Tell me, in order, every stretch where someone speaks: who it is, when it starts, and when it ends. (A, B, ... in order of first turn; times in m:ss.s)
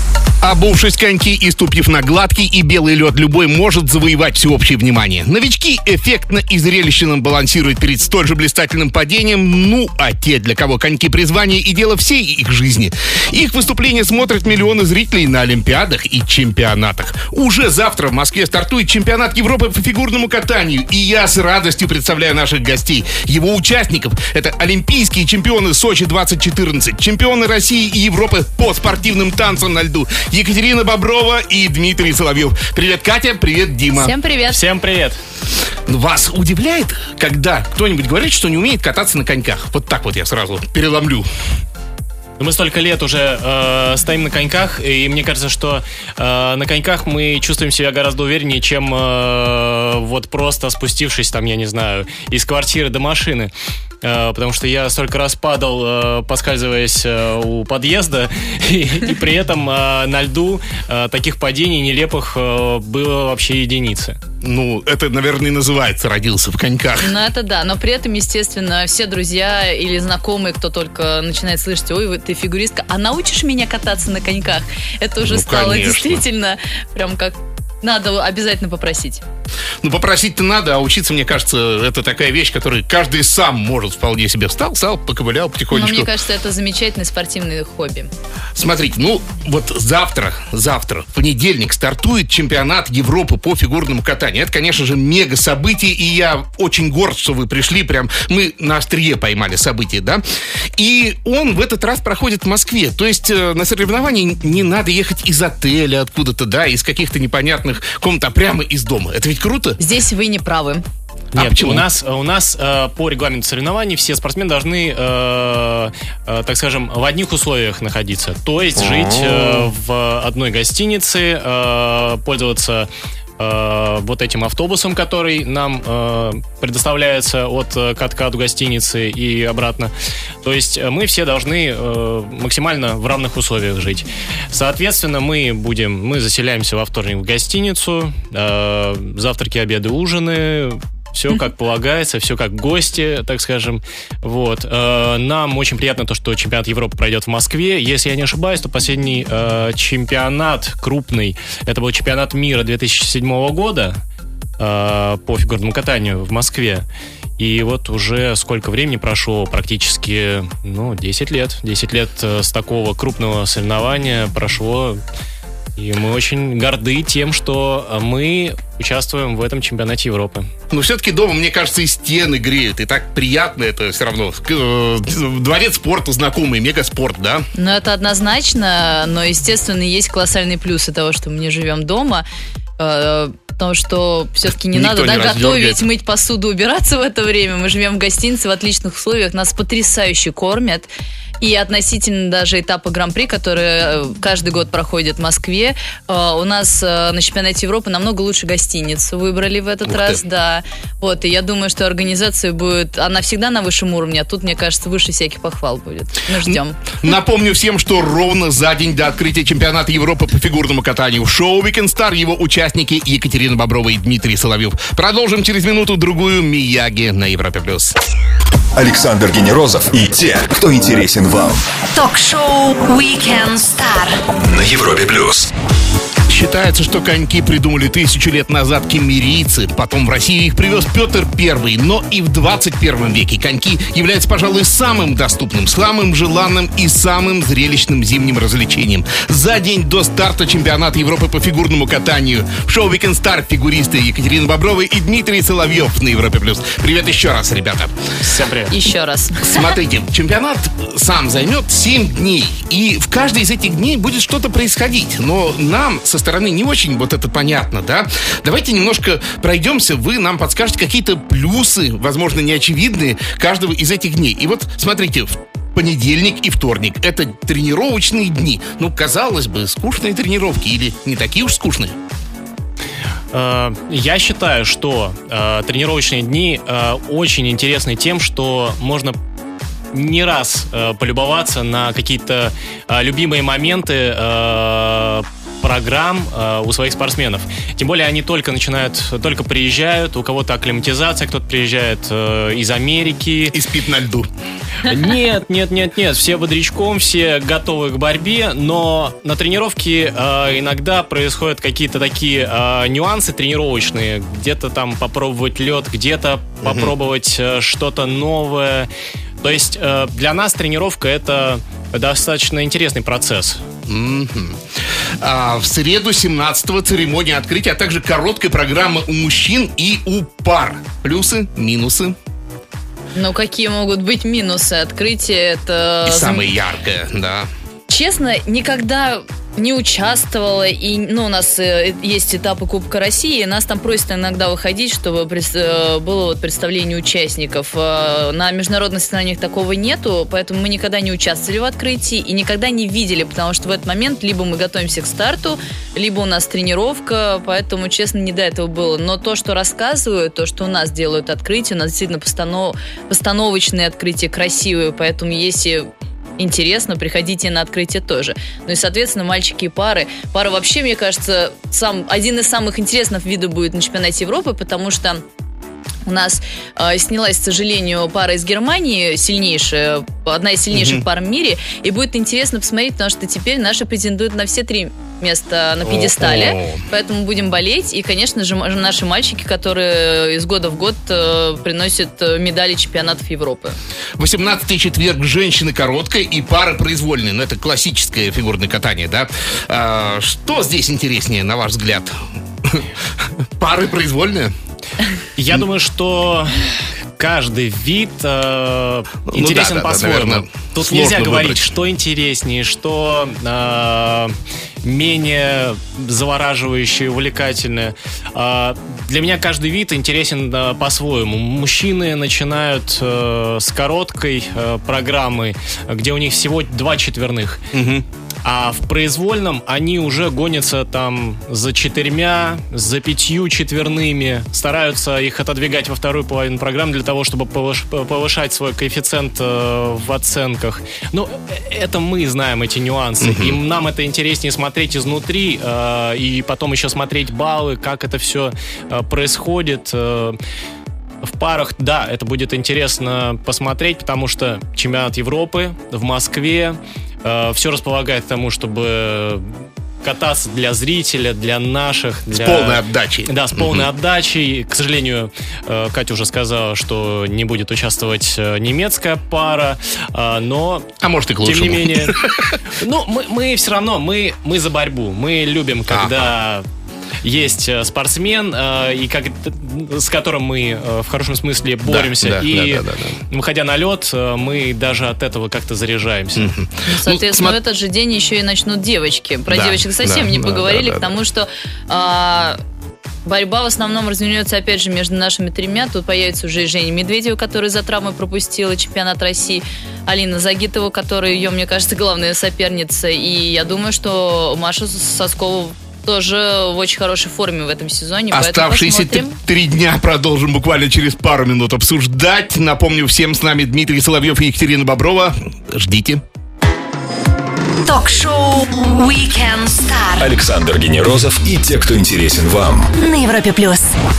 0:00.4-0:34.1 A
0:34.0-0:34.6 B
0:34.5-0:35.2 C
0:35.9-0:41.3 A
0:42.4-1:04.2 C
1:04.4-1:07.1 A
1:07.0-1:19.2 B
1:15.2-1:16.2 A
1:19.8-1:26.1 A
1:25.7-1:28.1 B
1:28.6-1:40.2 A
1:40.8-1:49.8 A
1:49.8-1:50.8 B
1:51.3-2:09.9 C
1:51.3-1:51.9 A
2:10.4-2:34.0 C
2:34.6-2:36.8 C
2:37.4-2:45.0 C
2:45.8-2:50.5 C
2:50.7-2:57.5 A
2:57.5-3:02.2 B
3:02.8-3:10.9 B
3:04.7-3:05.8 A
3:11.4-3:26.8 B
3:19.8-3:20.2 A
3:26.5-3:37.9 A
3:38.8-3:41.6 D
3:41.9-3:44.2 E
3:44.3-3:45.5 D
3:46.3-4:07.9 A
4:08.2-4:08.8 C
4:08.7-4:09.7 B
4:09.5-4:31.9 A
4:33.3-4:39.2 C
4:39.9-4:53.6 C
4:53.5-4:54.3 A
4:54.8-5:08.9 C
5:06.6-5:06.9 A
5:09.4-5:13.6 C
5:13.9-5:14.6 A
5:15.2-5:22.2 A
5:23.1-5:26.5 B
5:26.0-5:27.5 A
5:27.9-6:05.2 B
6:06.0-6:23.8 B
6:10.7-6:11.0 A
6:15.8-6:16.8 A
6:24.2-6:32.9 A
6:33.6-6:34.5 A
6:35.4-6:57.6 C
6:39.3-6:41.7 A
6:57.7-6:58.0 A
6:58.4-7:20.4 C
7:13.2-7:13.6 A
7:21.2-7:40.9 C
7:32.3-7:33.8 A
7:41.0-7:42.6 A
7:41.4-7:46.7 C
7:45.9-7:46.3 A
7:47.2-7:56.5 C
7:51.8-7:53.2 A
7:56.4-7:57.6 A
7:56.8-8:02.6 B
7:59.5-8:01.2 A
8:03.2-8:19.3 B
8:18.3-8:26.2 A
8:27.8-8:30.3 E
8:30.2-8:32.9 D
8:33.0-8:33.9 E